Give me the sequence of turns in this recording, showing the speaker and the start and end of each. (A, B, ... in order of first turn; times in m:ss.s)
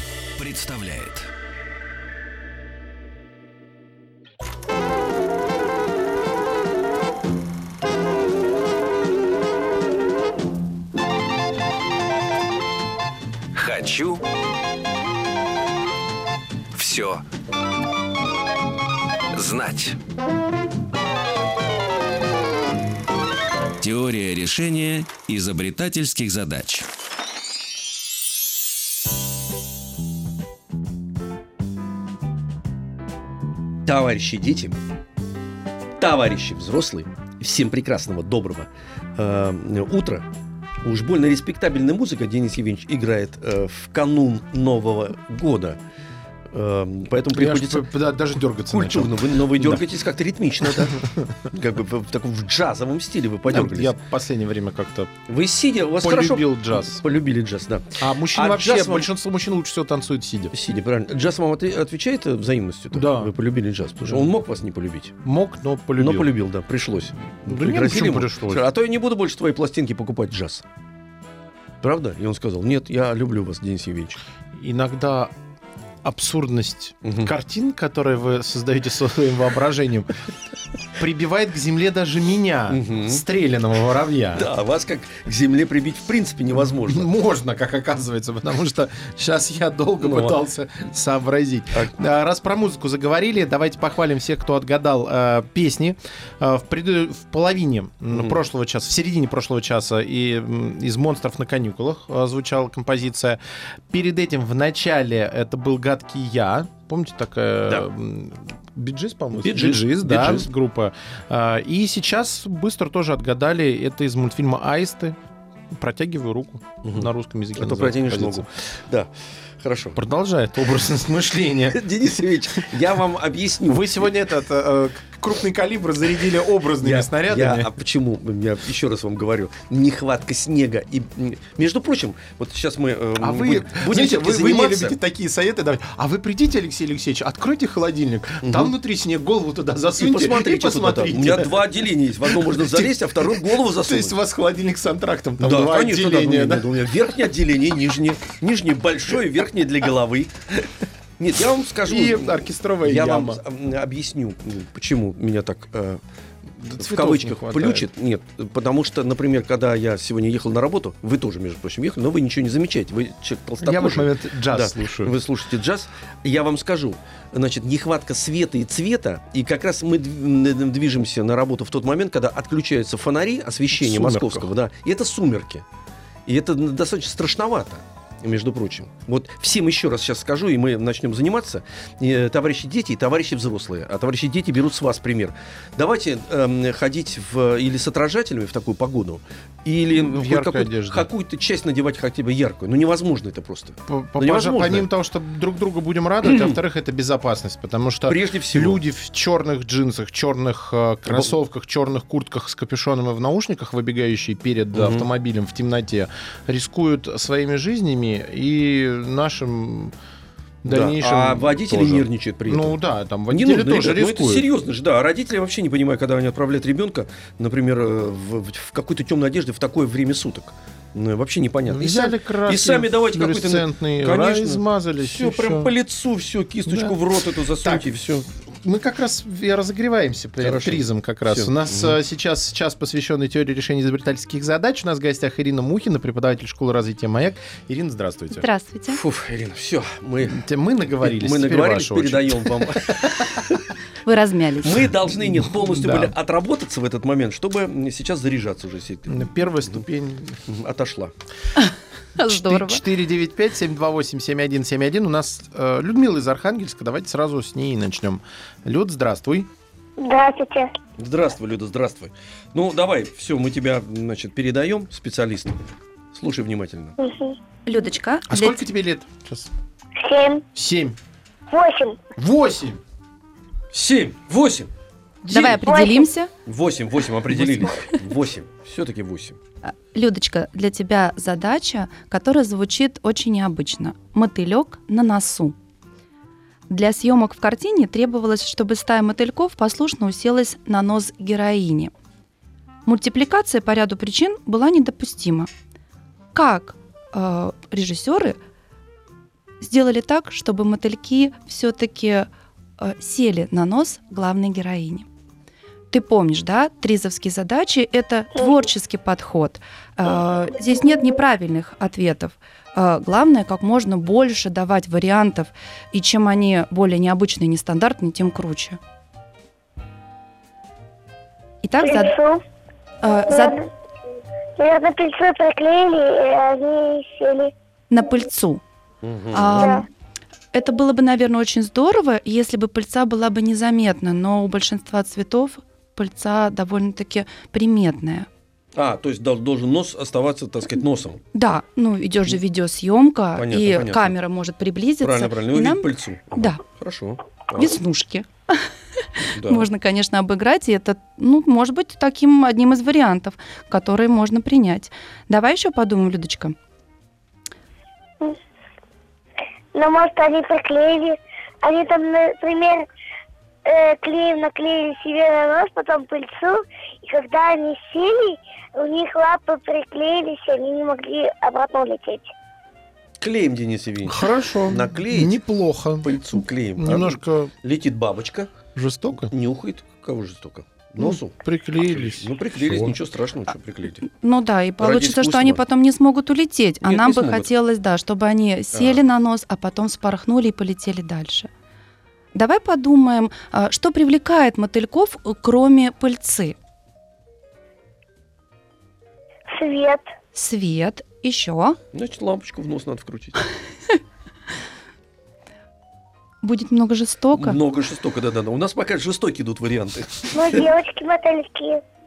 0:00.4-0:01.3 A
0:13.6-0:14.2 A
0:16.7-0:17.2 A
0:19.3-0:20.0 A
0:23.8-0:26.9 A
0:33.8-0:34.8 B
0:36.0-0:40.3 B
0:40.8-0:45.8 B
0:46.5-0:47.9 B
0:47.3-0:49.8 C
0:48.7-0:54.0 B
0:50.7-0:51.3 C
0:53.5-0:55.1 C
0:55.3-0:59.1 B
0:56.0-0:57.0 C
0:58.0-1:00.5 C
1:00.5-1:05.2 B
1:02.9-1:03.3 C
1:04.0-1:04.3 C
1:05.2-1:06.3 C
1:06.0-1:10.6 B
1:07.4-1:08.6 C
1:11.8-1:14.2 B
1:14.5-1:15.3 C
1:16.0-1:20.2 C
1:17.0-1:17.3 B
1:21.0-1:24.5 C
1:22.7-1:23.2 B
1:24.4-1:27.1 B
1:26.6-1:55.2 C
1:30.0-1:30.4 B
1:38.1-1:38.4 B
1:49.4-1:50.5 B
1:55.7-1:58.5 C
1:56.8-1:59.1 B
1:59.6-2:00.0 B
2:00.0-2:01.8 C
2:01.7-2:04.1 B
2:03.6-2:07.7 C
2:06.8-2:15.0 B
2:13.2-2:26.8 C
2:18.4-2:18.7 B
2:20.0-2:24.2 B
2:25.4-2:36.0 B
2:31.9-2:33.4 C
2:36.6-2:37.9 C
2:36.8-2:55.6 B
2:43.6-2:45.1 C
2:53.7-2:54.5 C
2:56.3-3:14.9 B
3:09.9-3:11.1 C
3:13.9-3:29.9 C
3:16.2-3:16.6 B
3:18.1-3:18.8 B
3:21.1-3:21.3 B
3:24.7-3:25.1 B
3:30.6-3:34.5 C
3:30.7-3:32.8 B
3:33.3-3:48.3 B
3:41.7-3:45.7 C
3:46.7-3:47.0 C
3:47.6-3:47.9 C
3:48.6-3:58.5 C
3:50.4-3:52.0 B
3:58.3-3:59.0 D
3:58.9-4:00.4 B
4:00.3-4:03.4 C
4:01.0-4:03.7 B
4:04.0-4:04.8 D
4:04.6-4:09.8 B
4:05.1-4:06.1 C
4:09.1-4:10.4 C
4:10.5-4:11.1 B
4:11.6-4:12.8 D
4:12.2-4:19.5 C
4:20.0-4:20.7 E
4:21.0-4:25.6 B
4:26.1-4:27.0 B
4:27.0-4:27.4 E
4:27.7-4:28.6 D
4:28.3-4:29.5 C
4:30.0-4:30.4 E
4:30.6-4:31.0 C
4:31.5-4:32.0 E
4:32.2-4:32.8 C
4:33.7-4:34.7 B
4:35.2-4:36.3 D
4:35.3-4:35.6 B
4:35.6-4:36.1 E
4:36.5-4:39.4 B
4:39.6-4:45.6 D
4:46.7-4:51.9 D
4:52.9-4:55.5 D
4:56.3-4:58.4 D
4:59.6-5:02.3 D
5:02.8-5:05.1 D
5:05.9-5:18.8 D
5:21.6-5:22.2 D
5:21.8-5:22.4 E
5:23.0-5:23.6 D
5:23.3-5:23.7 E
5:24.6-5:27.5 E
5:27.9-5:28.6 D
5:29.0-5:29.8 B
5:29.3-5:29.8 D
5:29.6-5:29.8 E
5:30.5-5:38.3 D
5:38.8-5:41.2 B
5:41.3-5:46.6 D
5:43.4-5:44.2 B
5:45.0-5:47.8 B
5:47.6-5:48.6 D
5:49.2-5:56.6 D
5:49.4-5:49.7 B
5:59.7-6:02.9 E
6:03.6-6:12.3 E
6:13.2-6:15.4 B
6:14.0-6:17.5 C
6:16.0-6:18.5 B
6:18.8-6:19.3 C
6:19.3-6:24.1 B
6:21.0-6:23.0 C
6:24.2-6:31.5 D
6:24.8-6:25.6 B
6:26.8-6:27.5 B
6:28.7-6:29.0 B
6:32.3-6:36.6 D
6:39.5-6:40.0 E
6:40.3-6:41.8 D
6:41.9-6:43.4 B
6:46.4-6:47.6 D
6:47.4-6:50.7 B
6:50.3-6:51.8 E